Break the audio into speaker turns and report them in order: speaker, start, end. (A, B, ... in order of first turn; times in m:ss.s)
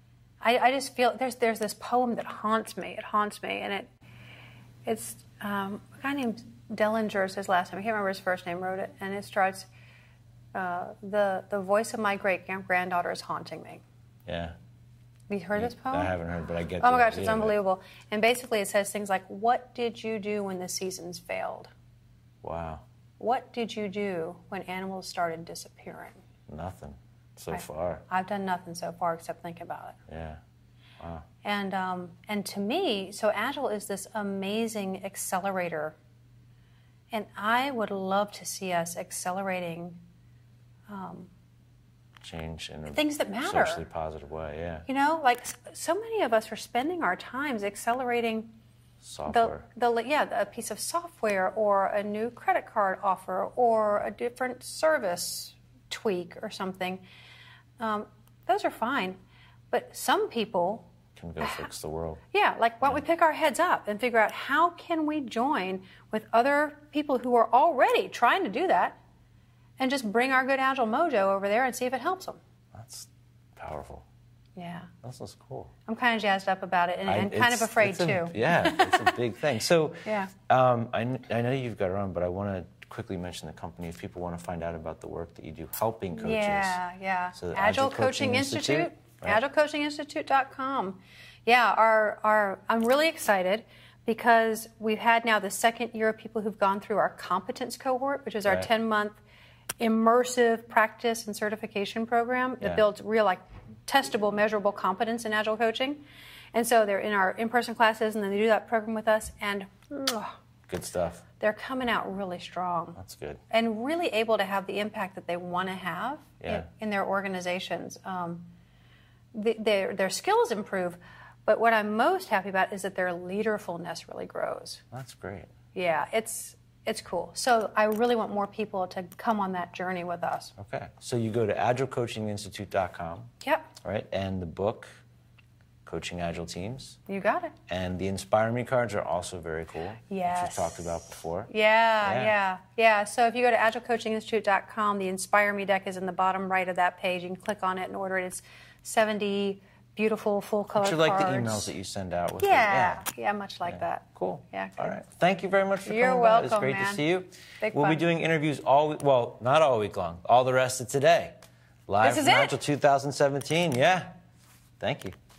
0:00.4-0:03.9 A
0:04.8-0:09.7 A
0:10.5-0:13.8 A
0:14.2-0:14.5 B
0:15.3-0:16.1 A
0:15.6-0:17.6 B
0:16.8-0:21.7 A
0:22.4-0:22.8 B
0:23.2-0:26.2 A
0:26.5-0:28.0 B
0:27.5-0:30.0 A
0:30.1-0:30.4 B
0:31.4-0:36.0 A
0:37.1-0:40.0 A
0:40.9-0:41.3 A
0:42.2-0:44.8 B
0:42.9-0:43.8 A
0:44.9-0:48.5 A
0:49.0-0:49.6 B
0:49.3-0:57.0 A
0:57.8-0:59.2 A
0:59.7-1:00.9 A
1:01.1-1:02.2 B
1:01.4-1:01.7 A
1:02.3-1:09.0 A
1:09.8-1:12.4 A
1:12.7-1:14.0 B
1:14.6-1:14.9 A
1:15.0-1:15.7 B
1:15.9-1:19.2 A
1:17.0-1:26.8 B
1:20.0-1:20.3 A
1:26.1-1:39.2 A
1:27.4-1:29.4 B
1:39.8-1:46.0 A
1:46.5-1:50.3 A
1:50.7-1:51.2 B
1:51.4-1:53.0 A
1:53.0-1:53.4 B
1:53.5-1:58.5 A
1:56.4-1:56.7 B
1:59.3-2:04.8 A
2:04.9-2:05.5 B
2:05.7-2:10.5 A
2:10.6-2:13.3 B
2:13.4-2:13.7 A
2:13.8-2:14.9 B
2:15.8-2:17.0 B
2:17.1-2:17.5 A
2:17.7-2:21.5 B
2:20.1-2:20.9 A
2:21.5-2:31.7 A
2:22.0-2:22.3 B
2:30.7-2:33.0 B
2:32.4-2:35.0 A
2:33.7-2:41.3 B
2:35.8-2:37.0 A
2:37.6-2:38.0 A
2:41.9-2:44.1 B
2:42.0-2:42.6 A
2:44.8-2:45.1 B